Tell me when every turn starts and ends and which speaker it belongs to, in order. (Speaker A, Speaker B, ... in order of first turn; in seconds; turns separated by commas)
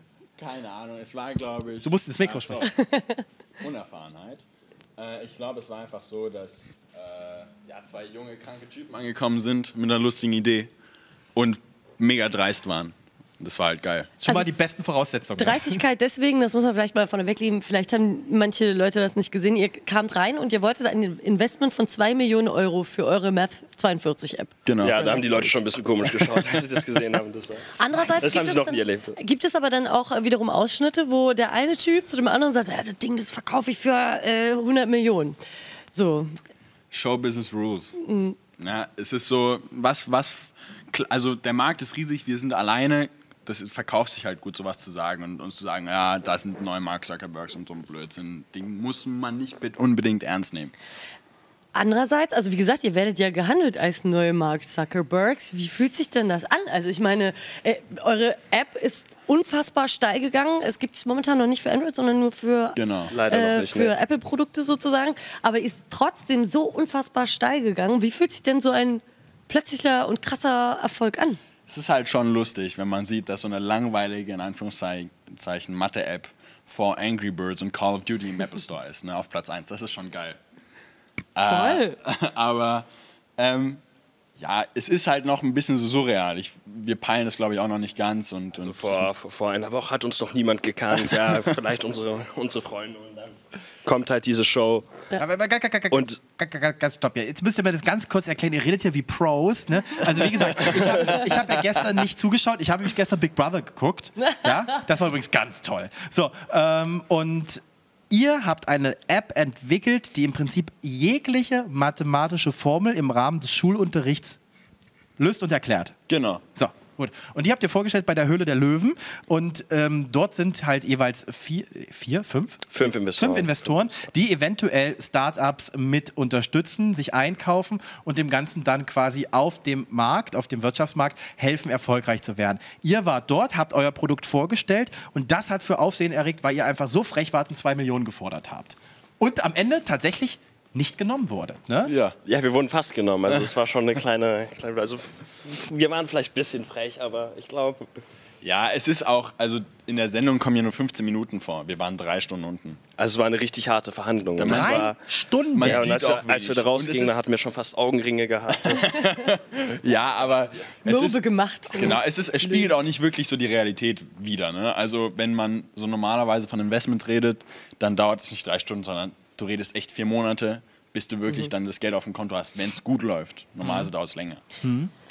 Speaker A: 0.4-2.7, Speaker B: 1.8-2.7, Speaker C: 2.8-3.2, Speaker A: 3.6-4.4, Speaker A: 5.0-10.7, Speaker A: 11.3-14.1, Speaker B: 14.2-15.8, Speaker C: 15.4-25.3, Speaker A: 24.6-25.6, Speaker D: 24.8-29.2, Speaker C: 27.8-35.4, Speaker C: 35.9-36.3, Speaker A: 36.9-38.0, Speaker C: 38.0-38.4, Speaker A: 38.6-50.7, Speaker C: 51.7-71.4, Speaker A: 62.8-63.1, Speaker D: 63.1-63.9, Speaker A: 71.7-80.4, Speaker A: 81.3-82.8, Speaker C: 81.4-82.0, Speaker A: 83.4-83.8, Speaker A: 84.4-89.1, Speaker D: 88.6-95.1, Speaker B: 95.2-114.4, Speaker D: 95.9-96.2, Speaker D: 100.4-101.5, Speaker B: 115.2-116.0, Speaker A: 116.1-116.4, Speaker B: 116.5-141.9, Speaker D: 122.7-124.1, Speaker A: 141.8-142.2, Speaker D: 142.2-147.9, Speaker A: 148.4-152.8, Speaker D: 153.0-155.0, Speaker A: 154.3-155.0, Speaker B: 154.4-155.9, Speaker A: 155.5-157.2, Speaker D: 155.6-159.1, Speaker A: 158.5-174.4, Speaker C: 160.8-162.7, Speaker B: 174.6-174.9